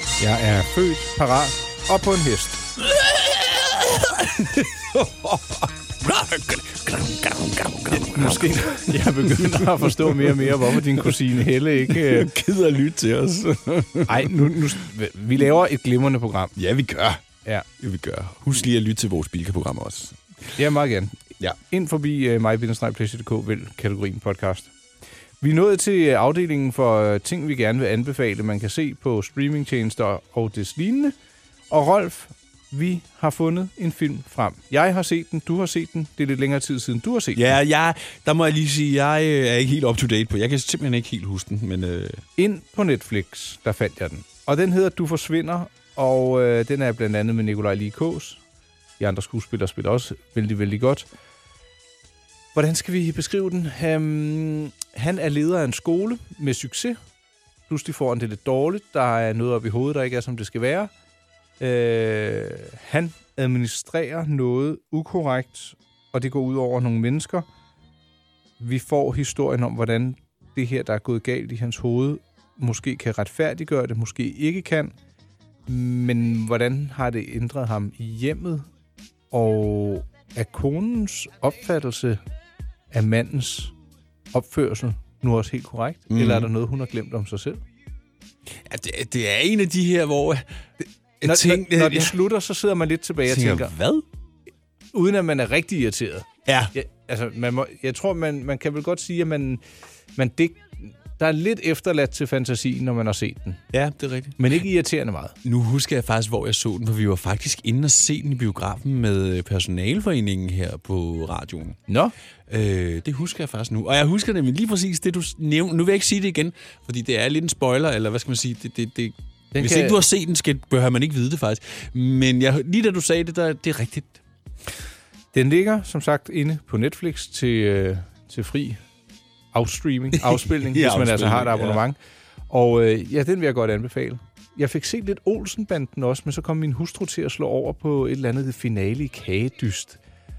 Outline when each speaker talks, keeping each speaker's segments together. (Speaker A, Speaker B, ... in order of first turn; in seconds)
Speaker A: 0.2-2.6, 7.9-12.3, 14.1-16.5, 20.6-24.7, 25.4-31.1, 31.7-37.5, 42.4-48.4, 49.0-51.0, 52.5-57.0, 57.7-60.9, 61.6-67.5, 68.6-74.9, 75.7-78.7, 79.3-82.2, 82.9-83.7, 84.3-87.6, 91.2-93.7, 94.9-99.6, 100.2-103.6, 104.4-105.3, 111.9-112.1, 119.5-120.0, 125.3-128.8, 129.5-132.0, 132.5-140.0
Speaker B: 2.8-14.6, 16.6-17.2, 17.8-20.2, 37.3-42.2, 86.1-86.5, 88.6-90.5, 91.2-92.1, 93.2-94.0, 96.5-96.7, 103.7-104.4, 105.4-111.8, 112.5-124.2, 130.2-131.8